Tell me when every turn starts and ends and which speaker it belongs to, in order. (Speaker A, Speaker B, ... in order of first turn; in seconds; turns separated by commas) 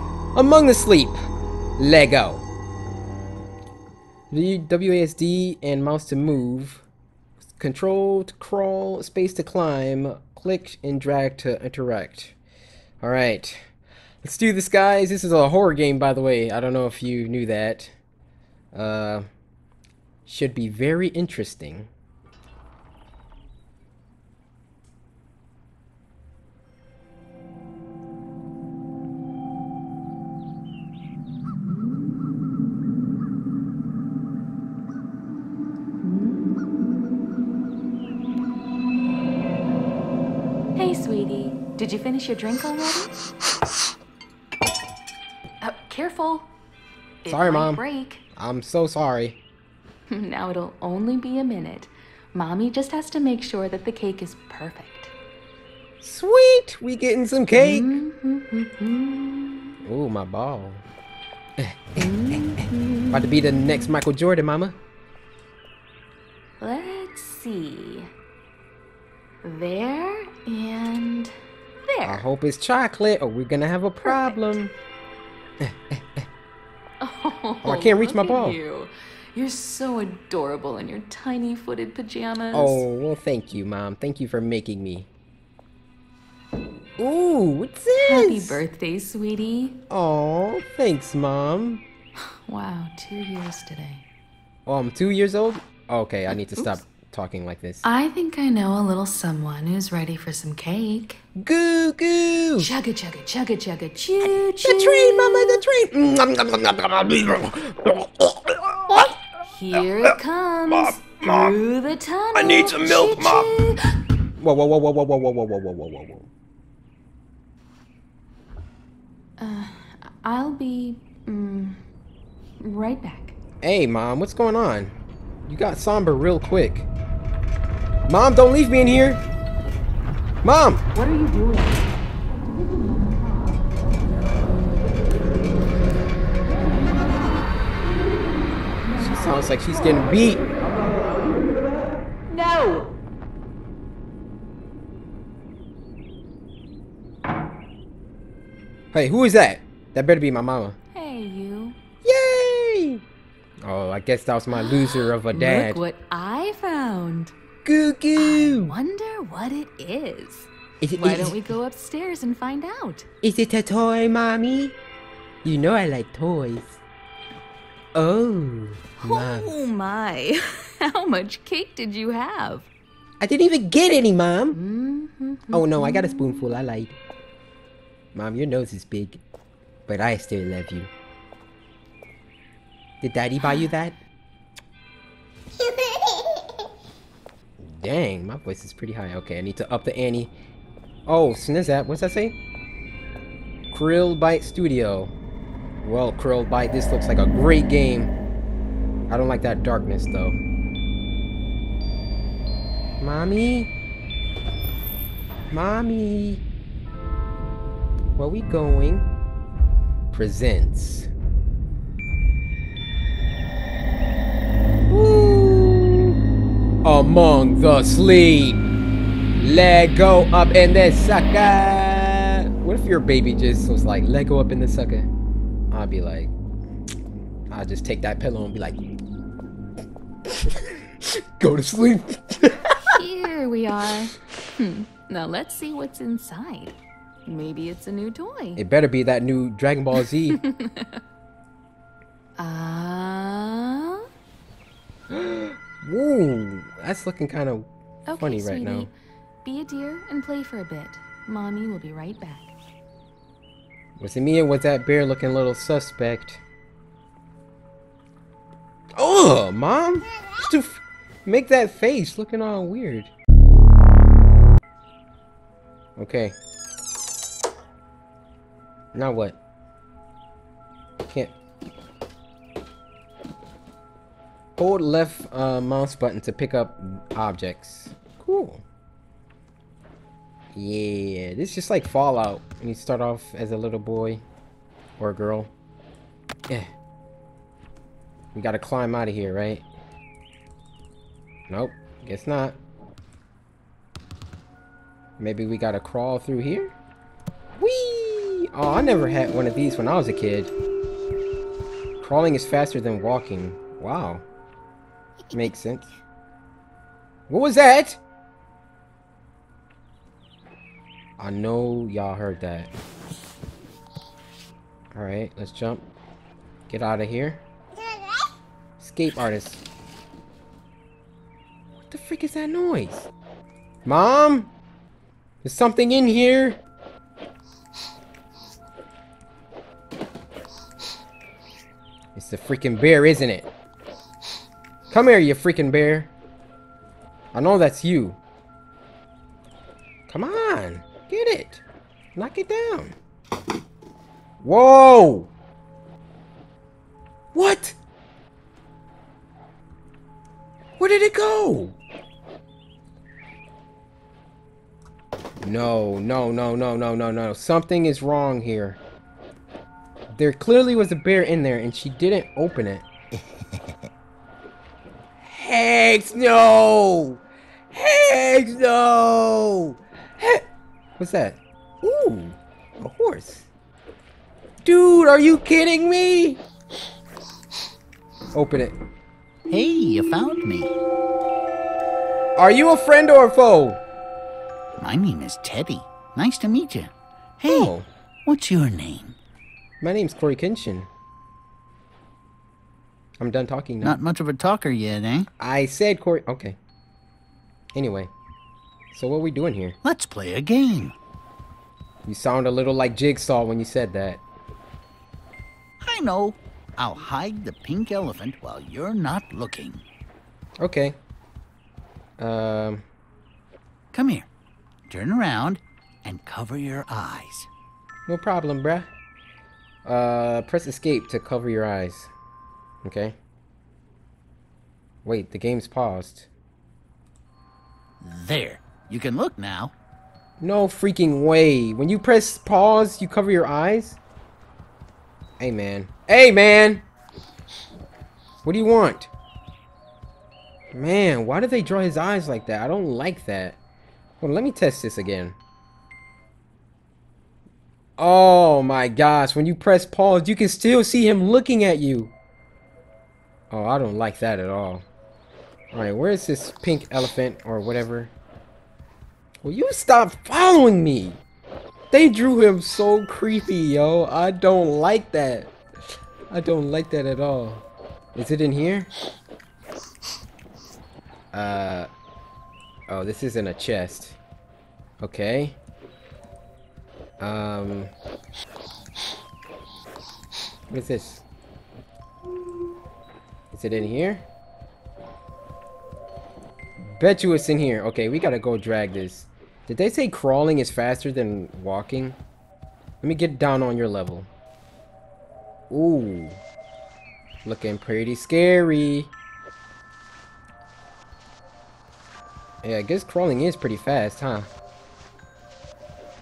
Speaker A: 0.3-1.2, Speaker A: 1.8-2.5, Speaker A: 4.3-6.8, Speaker A: 7.5-12.4, Speaker A: 13.0-13.6, Speaker A: 14.2-17.9, Speaker A: 18.7-19.3, Speaker A: 20.2-21.9, Speaker B: 36.0-36.6, Speaker B: 40.8-43.1, Speaker B: 45.6-46.5, Speaker B: 47.2-48.2, Speaker A: 47.3-47.8, Speaker A: 48.4-49.4, Speaker B: 50.1-55.1, Speaker A: 56.0-57.9, Speaker B: 57.5-59.8, Speaker A: 59.8-60.8, Speaker B: 62.0-63.8, Speaker A: 62.6-64.8, Speaker B: 66.6-68.1, Speaker B: 69.4-71.3, Speaker B: 71.9-72.2, Speaker A: 72.0-74.7, Speaker B: 74.0-74.5, Speaker A: 75.6-76.2, Speaker B: 77.0-82.8, Speaker A: 77.6-78.6, Speaker A: 82.5-85.1, Speaker A: 87.0-88.6, Speaker B: 88.0-89.8, Speaker A: 89.9-91.8, Speaker B: 92.5-94.0, Speaker A: 94.7-97.8, Speaker B: 96.3-96.8, Speaker B: 97.8-101.2, Speaker A: 101.4-102.7, Speaker B: 102.6-105.6, Speaker A: 104.6-109.2, Speaker B: 109.5-113.8, Speaker A: 110.7-111.5, Speaker A: 112.3-113.5, Speaker A: 114.4-116.3, Speaker B: 119.4-121.8, Speaker B: 122.6-123.3, Speaker A: 123.6-124.9, Speaker A: 125.5-126.9, Speaker A: 128.1-129.2, Speaker A: 130.4-130.8, Speaker B: 130.9-131.9, Speaker B: 138.9-139.6, Speaker A: 139.0-140.5, Speaker B: 142.3-142.9, Speaker A: 148.9-150.8, Speaker B: 150.9-151.8, Speaker A: 152.0-153.0, Speaker A: 153.6-155.8, Speaker B: 154.5-157.3, Speaker A: 157.7-158.8, Speaker B: 158.2-163.1, Speaker A: 160.8-161.4, Speaker A: 163.2-164.8, Speaker A: 165.4-166.8, Speaker A: 167.9-169.6, Speaker B: 169.0-172.7, Speaker A: 173.2-174.6, Speaker B: 174.5-176.7, Speaker A: 175.5-177.0, Speaker A: 178.1-179.2, Speaker A: 179.9-180.9, Speaker A: 183.0-184.0, Speaker A: 187.6-190.3, Speaker A: 191.1-192.4, Speaker A: 193.7-195.1, Speaker A: 195.8-198.2, Speaker A: 199.1-200.4, Speaker A: 203.0-203.7, Speaker A: 205.5-206.4, Speaker A: 208.2-209.1, Speaker A: 210.1-211.1, Speaker A: 214.9-216.2, Speaker A: 216.8-218.7, Speaker A: 219.4-225.1, Speaker A: 225.7-226.3, Speaker A: 227.5-228.8, Speaker A: 231.0-232.8, Speaker B: 232.8-238.6, Speaker A: 238.6-240.4, Speaker B: 240.3-241.0, Speaker B: 242.4-244.1, Speaker A: 245.1-248.9, Speaker B: 248.1-248.9, Speaker B: 249.4-252.5, Speaker A: 254.0-256.4, Speaker A: 259.0-263.1, Speaker A: 266.0-266.4, Speaker A: 268.9-269.4, Speaker A: 271.0-271.4, Speaker A: 274.6-278.6, Speaker A: 280.5-284.2, Speaker A: 285.0-285.5, Speaker A: 288.3-289.7, Speaker A: 291.5-292.6, Speaker A: 295.2-296.8, Speaker A: 297.6-300.5, Speaker A: 302.0-304.2, Speaker A: 305.3-305.9, Speaker A: 307.3-308.0, Speaker A: 311.2-312.7, Speaker A: 314.9-315.9, Speaker A: 316.7-317.4, Speaker A: 318.8-319.6, Speaker A: 321.9-323.1, Speaker A: 323.9-324.5, Speaker A: 325.4-326.6, Speaker A: 332.1-333.5, Speaker A: 334.9-336.1, Speaker A: 337.3-338.2, Speaker A: 340.1-341.6, Speaker A: 342.1-342.9, Speaker A: 344.4-345.3, Speaker A: 347.3-347.8, Speaker A: 350.8-351.8, Speaker A: 355.4-358.8, Speaker A: 360.1-362.9, Speaker A: 365.2-370.4, Speaker A: 371.0-373.5, Speaker A: 374.6-376.4, Speaker A: 378.3-378.8, Speaker C: 379.5-380.7, Speaker A: 382.4-383.8, Speaker C: 384.8-387.7, Speaker A: 387.5-387.9, Speaker C: 388.2-389.2, Speaker A: 389.8-390.9, Speaker A: 393.2-394.0, Speaker C: 393.8-395.3, Speaker A: 395.4-396.6, Speaker A: 397.8-398.1, Speaker A: 398.9-399.8, Speaker C: 399.8-400.9, Speaker A: 402.1-404.2, Speaker C: 405.8-409.8, Speaker A: 410.6-411.0, Speaker A: 412.2-412.9, Speaker C: 413.9-414.3, Speaker C: 414.9-417.5, Speaker A: 418.1-418.9, Speaker A: 419.9-422.1, Speaker A: 422.8-423.2, Speaker A: 425.1-426.3, Speaker C: 428.0-429.7, Speaker A: 430.4-434.0, Speaker A: 435.4-436.9, Speaker A: 438.4-439.1, Speaker A: 440.7-443.6, Speaker A: 444.2-445.4, Speaker A: 448.0-452.1, Speaker A: 453.5-454.9, Speaker A: 455.7-458.1, Speaker A: 459.4-461.2, Speaker A: 461.9-465.5, Speaker A: 466.3-468.9, Speaker A: 471.3-471.9, Speaker A: 472.9-474.2, Speaker A: 475.0-475.6, Speaker A: 477.2-477.9, Speaker A: 480.7-481.2, Speaker A: 483.5-484.2, Speaker A: 486.9-492.2, Speaker A: 493.0-494.3, Speaker A: 495.7-496.4, Speaker A: 497.4-499.1, Speaker A: 502.6-504.5